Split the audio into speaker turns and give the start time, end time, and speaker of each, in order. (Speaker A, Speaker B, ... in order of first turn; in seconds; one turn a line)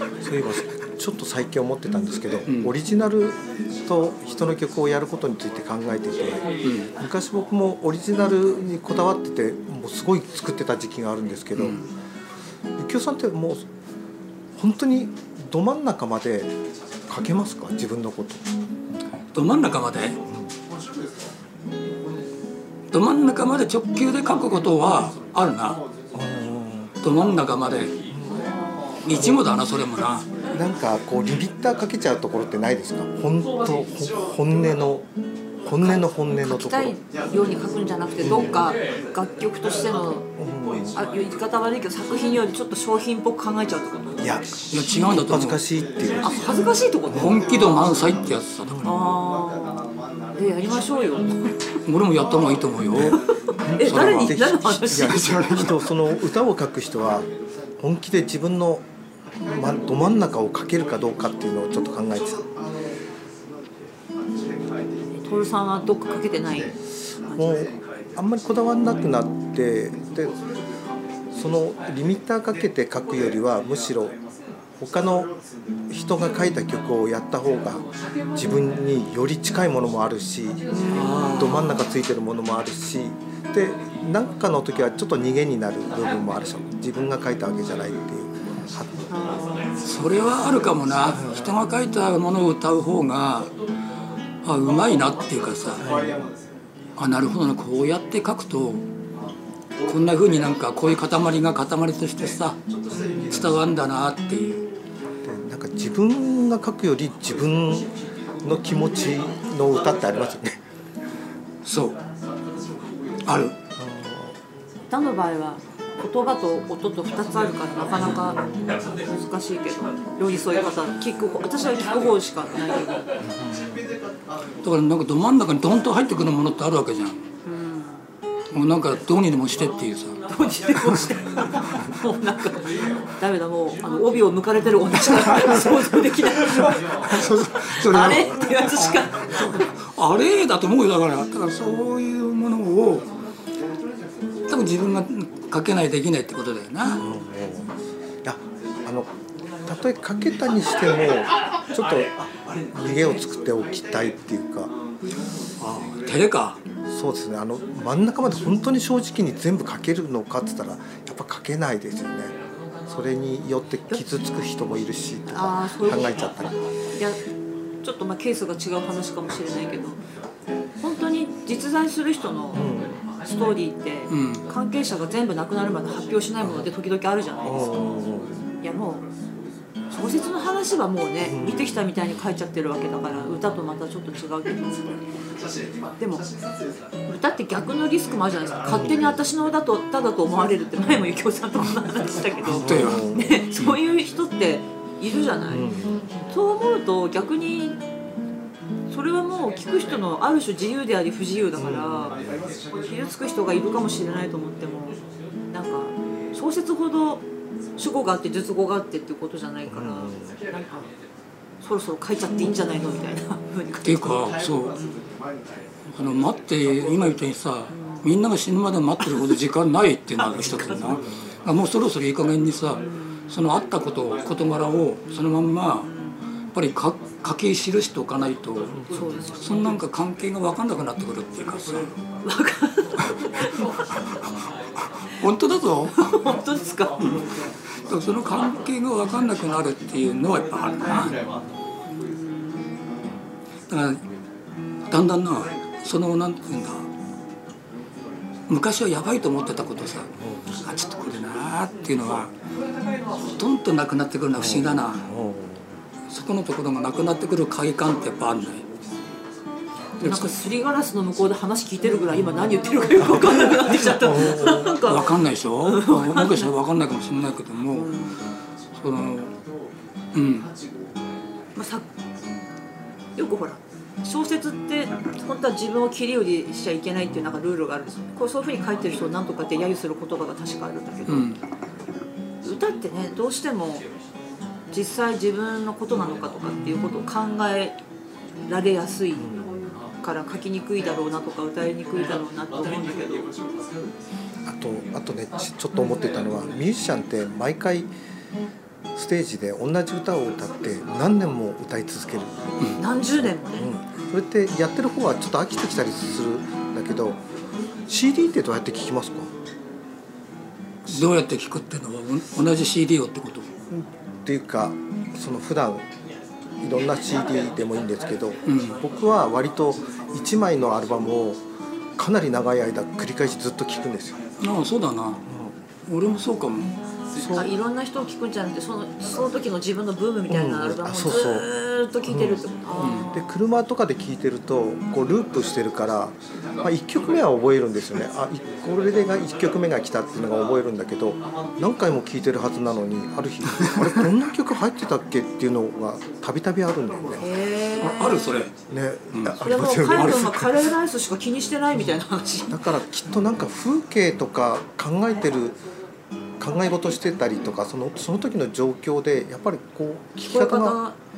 Speaker A: 0.2-11.8
Speaker B: 2.5-2.7
Speaker B: 6.6-6.9
Speaker B: 11.6-11.8
Speaker A: 12.8-13.7
Speaker A: 14.6-16.5
Speaker A: 17.1-18.4
Speaker B: 19.3-20.2
Speaker B: 22.9-25.8
Speaker A: 26.1-26.9
Speaker B: 27.0-28.0
Speaker C: 28.3-29.0
Speaker B: 29.0-30.3
Speaker A: 29.1-29.4
Speaker A: 30.5-35.1
Speaker A: 35.6-37.0
Speaker C: 35.8-40.3
Speaker A: 38.2-38.7
Speaker A: 40.4-41.0
Speaker C: 40.9-44.5
Speaker A: 44.2-46.5
Speaker B: 44.7-45.6
Speaker C: 46.2-47.9
Speaker A: 47.1-47.4
Speaker B: 47.1-49.0
Speaker A: 48.7-49.0
Speaker C: 48.8-51.8
Speaker B: 51.8-53.2
Speaker A: 52.9-58.8
Speaker C: 53.1-55.3
Speaker B: 53.8-55.9
Speaker A: 59.4-62.5
Speaker C: 65.1-67.6
Speaker A: 67.3-70.4
Speaker A: 71.3-74.2
Speaker A: 74.8-75.3
Speaker A: 75.9-80.8
Speaker C: 80.7-81.8
Speaker B: 80.9-81.6
Speaker A: 81.3-89.1
Speaker C: 89.1-89.8
Speaker B: 89.8-93.5
Speaker B: 94.4-95.9
Speaker A: 95.8-96.2
Speaker B: 97.0-98.8
Speaker B: 99.8-102.6
Speaker A: 102.9-103.5
Speaker B: 103.3-104.7
Speaker A: 105.2-110.6
Speaker B: 111.6-112.0
Speaker B: 113.2-113.5
Speaker A: 113.8-114.3
Speaker C: 114.9-123.1
Speaker A: 118.1-118.9
Speaker A: 123.2-123.8
Speaker B: 124.6-127.2
Speaker C: 127.4-128.0
Speaker B: 128.5-130.2
Speaker C: 130.3-137.0
Speaker B: 135.2-135.7
Speaker B: 137.0-143.0
Speaker C: 137.8-139.7
Speaker B: 144.5-147.0
Speaker A: 147.0-149.1
Speaker A: 149.6-152.2
Speaker A: 152.7-154.7
Speaker B: 155.6-156.6
Speaker A: 156.9-162.3
Speaker A: 162.9-166.5
Speaker C: 165.3-166.3
Speaker C: 166.9-167.2
Speaker C: 167.8-170.0
Speaker C: 170.8-177.8
Speaker A: 172.5-173.0
Speaker B: 174.1-174.4
Speaker A: 177.4-178.3
Speaker C: 178.6-179.1
Speaker C: 179.9-185.1
Speaker A: 181.2-181.6
Speaker C: 186.0-186.3
Speaker C: 187.1-195.7
Speaker A: 188.7-189.2
Speaker B: 192.5-193.8
Speaker A: 192.5-193.4
Speaker A: 195.5-196.0
Speaker C: 196.3-197.8
Speaker C: 198.9-202.2
Speaker A: 201.6-202.4
Speaker C: 202.7-207.2
Speaker C: 207.8-210.1
Speaker A: 209.7-210.4
Speaker C: 211.6-214.2
Speaker B: 213.8-214.8
Speaker C: 214.7-215.0
Speaker B: 215.9-225.9
Speaker C: 217.7-218.1
Speaker C: 222.8-223.3
Speaker C: 225.8-226.2
Speaker B: 226.5-232.0
Speaker C: 228.9-229.7
Speaker C: 232.2-233.7
Speaker B: 234.1-236.2
Speaker C: 236.0-237.2
Speaker B: 237.0-237.3
Speaker B: 237.8-241.2
Speaker C: 241.9-243.0
Speaker B: 243.7-244.0
Speaker B: 244.9-246.9
Speaker B: 248.5-252.3
Speaker A: 250.2-250.5
Speaker B: 253.2-255.1
Speaker A: 254.3-255.8
Speaker B: 256.1-258.7
Speaker B: 260.0-260.4
Speaker C: 260.0-266.5
Speaker A: 264.0-264.6
Speaker B: 264.3-267.9
Speaker C: 267.7-268.2
Speaker B: 268.7-269.4
Speaker B: 270.1-270.5
Speaker C: 271.6-271.9
Speaker C: 273.2-281.4
Speaker B: 281.1-281.4
Speaker C: 282.4-283.9
Speaker C: 284.7-287.8
Speaker C: 288.5-289.3
Speaker A: 289.2-289.5
Speaker C: 290.0-293.3
Speaker A: 294.4-297.9
Speaker A: 298.9-302.8
Speaker C: 302.8-303.7
Speaker A: 303.5-307.2
Speaker A: 307.9-309.3
Speaker B: 310.9-313.5
Speaker A: 313.7-315.9
Speaker A: 316.6-321.4
Speaker B: 318.4-318.8
Speaker A: 322.0-324.2
Speaker B: 324.4-325.2
Speaker A: 325.2-325.5
Speaker B: 325.9-326.7
Speaker A: 327.1-327.5
Speaker C: 327.3-333.2
Speaker A: 330.3-331.5
Speaker A: 332.0-332.4
Speaker B: 332.8-333.1
Speaker A: 333.1-347.3
Speaker C: 347.2-348.4
Speaker B: 347.8-348.5
Speaker A: 348.7-350.4
Speaker B: 349.1-350.4
Speaker C: 349.4-352.6
Speaker A: 352.5-355.6
Speaker A: 356.4-360.8
Speaker C: 360.2-361.0